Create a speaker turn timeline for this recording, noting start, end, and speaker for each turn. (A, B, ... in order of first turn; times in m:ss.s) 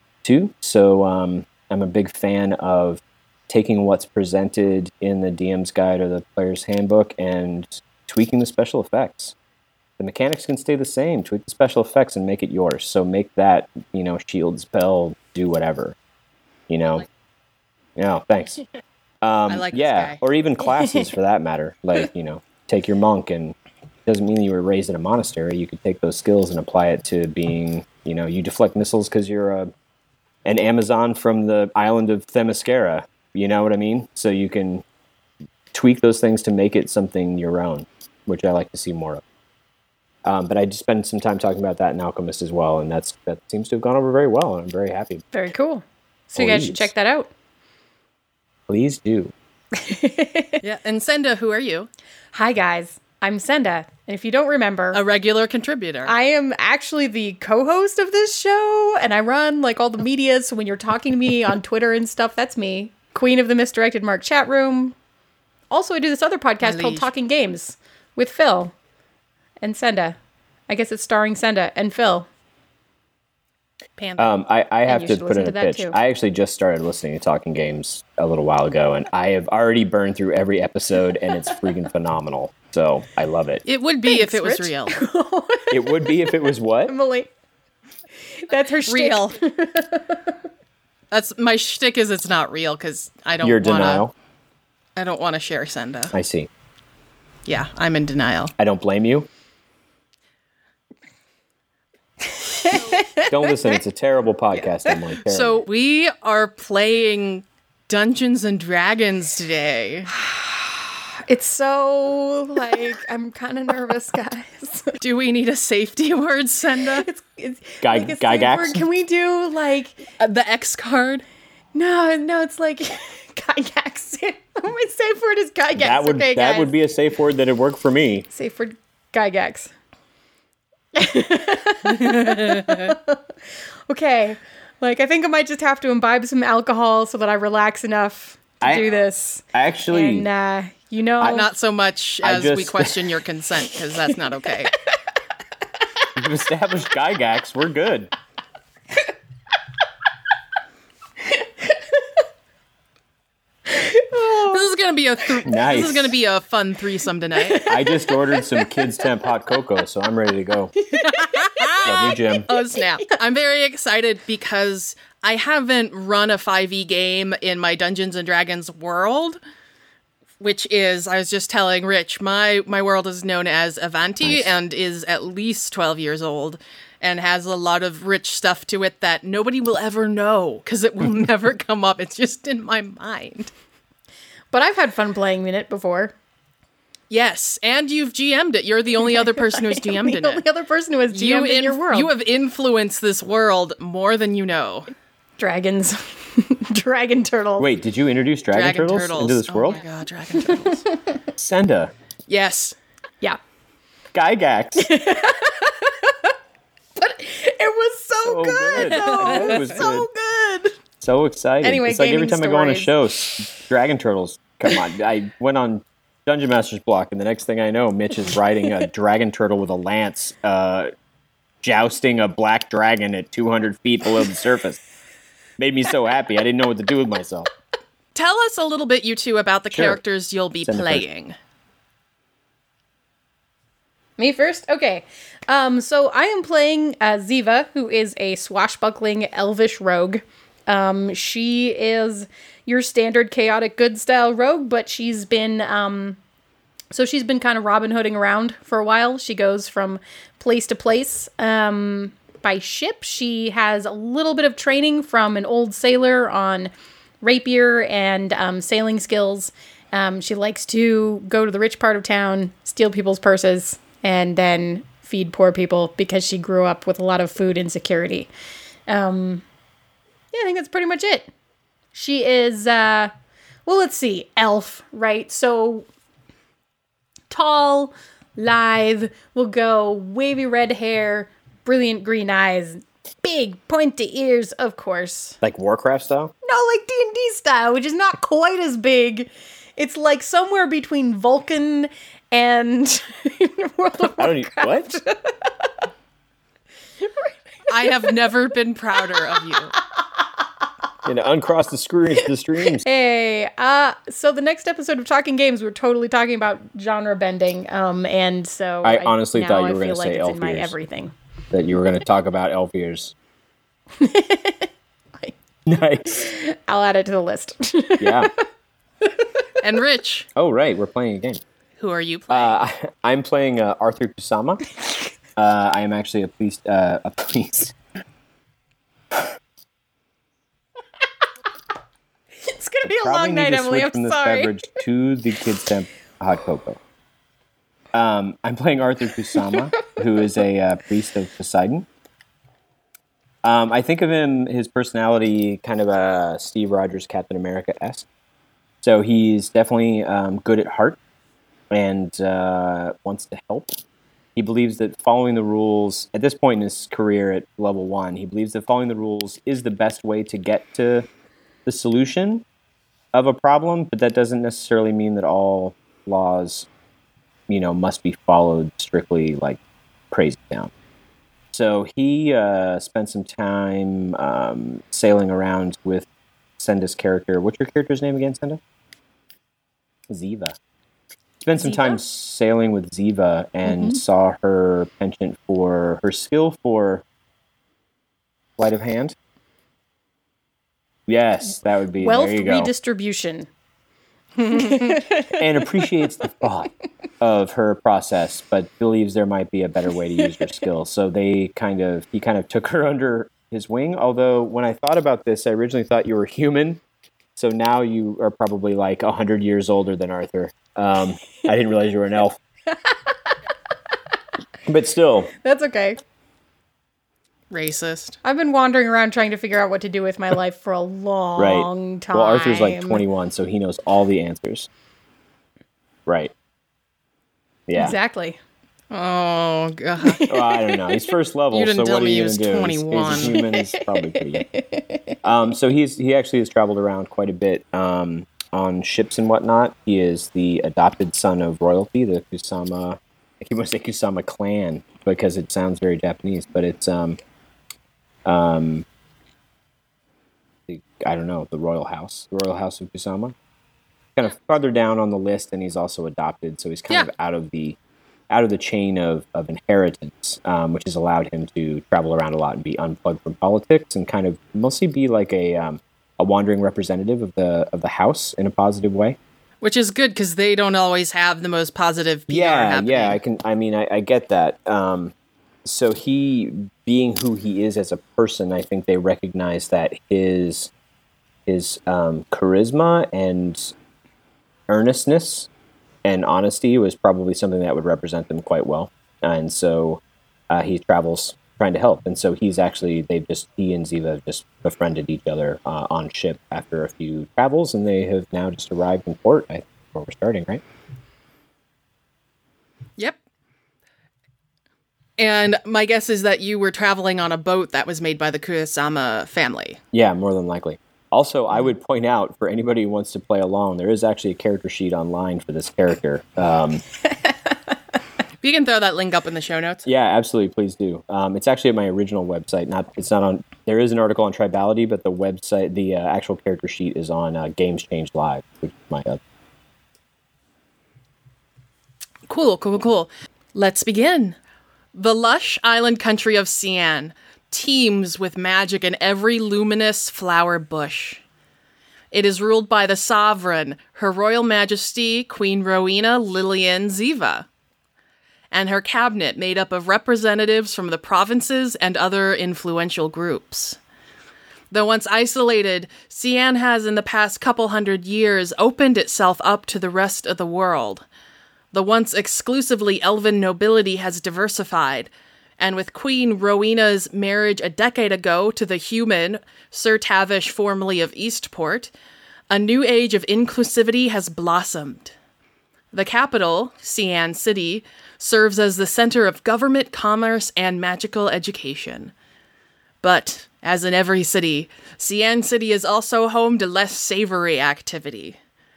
0:00.2-0:09.4 A
0:10.0-0:16.0 A
0:16.7-0:17.1 A
0:18.0-0:18.6 A
0:19.2-0:23.6 A
0:19.5-0:20.2 B
0:24.1-0:29.7 A
0:30.4-0:34.8 A
0:35.7-0:39.2 A
0:40.2-0:45.2 A
0:45.3-0:47.3 C
0:46.4-0:46.9 A
0:48.7-0:49.3 A
0:49.8-0:50.6 C
0:50.6-0:51.9 B
0:52.3-0:55.0 C
0:54.9-0:56.1 B
0:56.1-1:05.0 C
1:05.7-1:08.7 C
1:06.6-1:07.1 B
1:09.6-1:10.2 C
1:10.7-1:12.3 C
1:14.0-1:14.4 B
1:14.2-1:23.6 A
1:14.9-1:16.0 C
1:23.6-1:25.0 B
1:24.0-1:27.3 C
1:25.7-1:26.9 A
1:28.4-1:30.4 C
1:28.9-1:29.4 B
1:31.1-1:34.0 B
1:33.4-1:34.1 A
1:35.0-1:36.1 B
1:36.1-1:36.5 A
1:37.5-1:38.5 B
1:38.6-1:39.3 A
1:42.4-1:43.8 C
1:43.3-1:45.6 A
1:45.3-1:50.1 B
1:50.2-1:55.0 C
1:55.0-1:57.1 B
1:57.0-2:00.0 C
1:57.8-1:58.8 A
2:00.2-2:01.2 B
2:01.7-2:06.7 C
2:05.8-2:08.3 A
2:08.3-2:09.7 C
2:10.9-2:13.2 C
2:11.9-2:13.0 B
2:13.9-2:21.5 C
2:18.6-2:19.0 A
2:19.5-2:20.3 A
2:21.2-2:21.5 A
2:21.2-2:24.7 B
2:22.2-2:23.1 A
2:26.2-2:28.1 A
2:33.7-2:34.7 C
2:34.5-2:37.7 B
2:35.5-2:36.1 A
2:37.4-2:39.1 C
2:37.6-2:40.8 A
2:40.9-2:43.1 C
2:41.0-2:49.4 B
2:41.8-2:42.5 A
2:50.4-3:03.5 B
3:04.5-3:06.1 C
3:07.1-3:10.4 B
3:09.0-3:12.1 C
3:11.1-3:14.9 B
3:15.4-3:17.7 C
3:17.6-3:19.8 A
3:18.5-3:20.8 B
3:21.4-3:21.9 A
3:22.3-3:22.8 B
3:24.1-3:24.9 A
3:24.8-3:26.3 C
3:27.0-3:30.8 C
3:28.2-3:30.1 A
3:29.0-3:29.6 B
3:31.0-3:40.9 A
3:31.6-3:33.5 C
3:41.6-3:44.8 A
3:45.6-3:47.5 A
3:48.1-3:51.4 B
3:49.7-3:50.0 A
3:50.6-3:51.0 A
3:54.2-4:06.2 C
4:06.9-4:16.7 C
4:17.2-4:28.3 C
4:28.9-4:29.4 C
4:30.3-4:31.3 C
4:31.9-4:33.1 C
4:33.7-4:35.9 C
4:37.3-4:45.4 C
4:45.4-4:46.3 A
4:46.4-4:55.7 C
4:54.2-4:54.9 A
4:57.7-4:59.7 B
4:57.8-4:58.1 C
5:01.0-5:02.8 A
5:02.8-5:11.1 C
5:08.8-5:10.7 A
5:11.5-5:13.1 A
5:14.0-5:15.4 C
5:15.7-5:16.3 A
5:16.1-5:18.3 C
5:18.0-5:18.3 A
5:19.6-5:20.3 B
5:20.4-5:21.4 A
5:21.8-5:22.6 B
5:22.3-5:24.6 A
5:25.4-5:27.8 A
5:32.4-5:34.6 C
5:32.8-5:36.8 A
5:37.9-5:41.9 A
5:39.3-5:39.9 C
5:43.4-5:48.1 A
5:48.8-5:51.0 A
5:51.7-5:53.7 A
5:54.4-6:01.1 A
6:01.7-6:02.4 A
6:03.1-6:06.7 A
6:07.5-6:09.6 A
6:10.1-6:10.7 A
6:11.5-6:16.1 A
6:16.6-6:18.6 A
6:20.1-6:20.6 A
6:21.4-6:27.0 A
6:21.6-6:22.0 C
6:23.6-6:24.0 C
6:28.6-6:29.2 A
6:31.1-6:32.7 A
6:32.0-6:33.5 C
6:34.4-6:36.3 C
6:34.4-6:34.9 B
6:35.3-6:36.7 A
6:37.2-6:46.8 A
6:47.4-6:52.4 A
6:52.7-6:53.3 C
6:54.7-6:55.3 A
6:55.4-6:56.0 C
6:57.5-6:58.2 B
6:58.2-7:03.0 C
7:01.4-7:04.7 A
7:06.1-7:06.3 A
7:07.7-7:08.0 A
7:07.7-7:08.4 C
7:08.9-7:10.2 B
7:10.0-7:11.1 C
7:10.3-7:14.5 A
7:11.5-7:13.4 B
7:13.1-7:15.2 C
7:15.2-7:27.2 A
7:28.3-7:28.8 A
7:30.7-7:33.3 A
7:34.2-7:37.8 A
7:38.3-7:49.2 A
7:49.6-7:53.2 B
7:52.3-7:55.1 A
7:55.6-8:00.7 A
8:01.5-8:03.7 A
8:04.7-8:05.5 A
8:06.0-8:20.6 A
8:25.2-8:29.8 B
8:29.9-8:36.8 A
8:38.4-8:39.9 B
8:39.9-8:49.2 A
8:52.3-8:54.4 B
8:55.0-9:01.2 B
9:02.1-9:07.5 B
9:08.5-9:13.8 B
9:14.7-9:21.0 B
9:21.7-9:31.9 B
9:32.5-9:35.1 B
9:35.9-9:42.1 B
9:43.0-9:48.4 B